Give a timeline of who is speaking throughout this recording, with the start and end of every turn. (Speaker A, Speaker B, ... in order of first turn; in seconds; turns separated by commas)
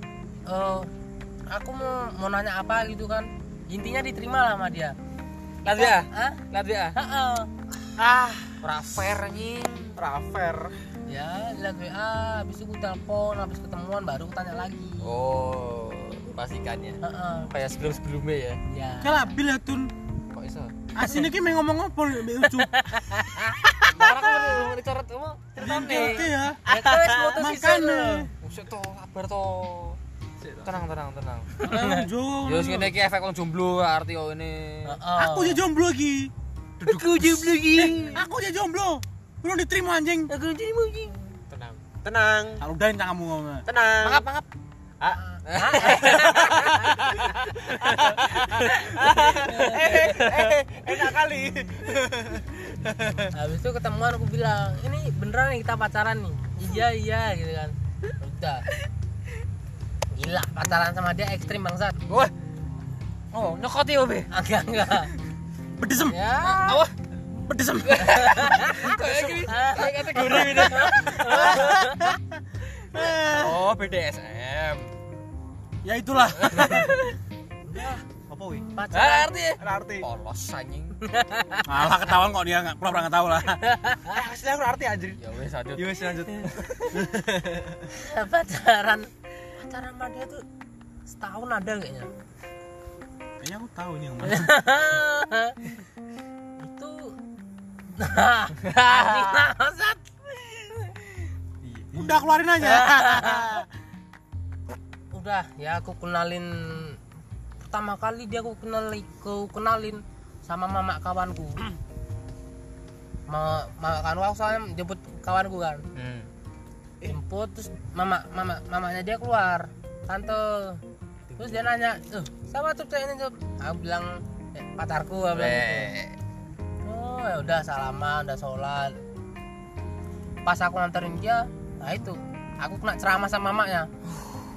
Speaker A: 0.5-0.9, Speaker A: 1.5-5.0, Speaker B: 5.7-7.0, Speaker A: 5.7-7.5, Speaker B: 8.0-10.0, Speaker C: 8.0-8.5, Speaker C: 10.0-10.7, Speaker A: 11.1-15.1, Speaker B: 15.0-17.0, Speaker A: 17.0-17.5, Speaker B: 17.5-18.6, Speaker A: 18.7-19.2, Speaker D: 19.0-19.9, Speaker B: 20.3-20.7, Speaker D: 20.9-22.7, Speaker A: 22.6-24.2, Speaker B: 23.9-26.3, Speaker D: 25.6-26.6, Speaker A: 25.8-28.3, Speaker C: 26.7-27.4, Speaker D: 27.4-28.3, Speaker B: 28.4-30.0, Speaker B: 30.6-31.5, Speaker A: 31.6-32.1, Speaker D: 31.6-32.9, Speaker B: 32.5-35.0, Speaker A: 34.9-35.6, Speaker D: 35.2-36.3, Speaker C: 36.8-37.6, Speaker B: 36.8-38.2, Speaker D: 37.8-40.3, Speaker B: 40.3-41.2, Speaker C: 41.5-42.6, Speaker D: 42.6-43.6, Speaker C: 43.7-44.3, Speaker B: 44.0-44.5, Speaker A: 45.4-46.7, Speaker B: 45.5-50.5, Speaker C: 45.8-53.3, Speaker A: 49.2-50.2, Speaker A: 53.3-58.7, Speaker A: 60.1-62.0, Speaker B: 63.3-64.3, Speaker A: 64.3-65.1, Speaker D: 65.8-66.2, Speaker A: 66.1-66.8, Speaker B: 66.4-66.9, Speaker D: 67.3-68.7, Speaker B: 67.8-71.9, Speaker A: 68.2-72.1, Speaker D: 71.3-72.2, Speaker D: 72.9-73.7, Speaker B: 73.1-74.9, Speaker D: 75.8-77.0, Speaker B: 76.4-77.1, Speaker A: 77.7-78.0, Speaker C: 78.3-78.7, Speaker A: 78.8-79.3, Speaker B: 78.9-81.0, Speaker C: 79.6-80.1, Speaker A: 81.0-81.6, Speaker D: 81.7-83.6, Speaker A: 83.6-84.1, Speaker C: 84.1-85.2, Speaker B: 85.2-86.6, Speaker C: 85.8-87.9, Speaker A: 87.9-90.4, Speaker A: 91.1-92.1, Speaker D: 93.4-94.5, Speaker A: 94.2-95.6, Speaker A: 96.6-97.1, Speaker A: 98.0-101.2, Speaker B: 98.6-99.4, Speaker D: 101.6-103.7, Speaker A: 102.6-103.7, Speaker A: 105.1-107.0, Speaker A: 107.6-111.6, Speaker A: 113.3-115.8, Speaker B: 116.0-116.3, Speaker A: 117.1-120.8, Speaker C: 121.3-121.6, Speaker A: 121.4-125.9, Speaker B: 125.3-126.2, Speaker A: 126.8-129.0, Speaker A: 130.4-133.9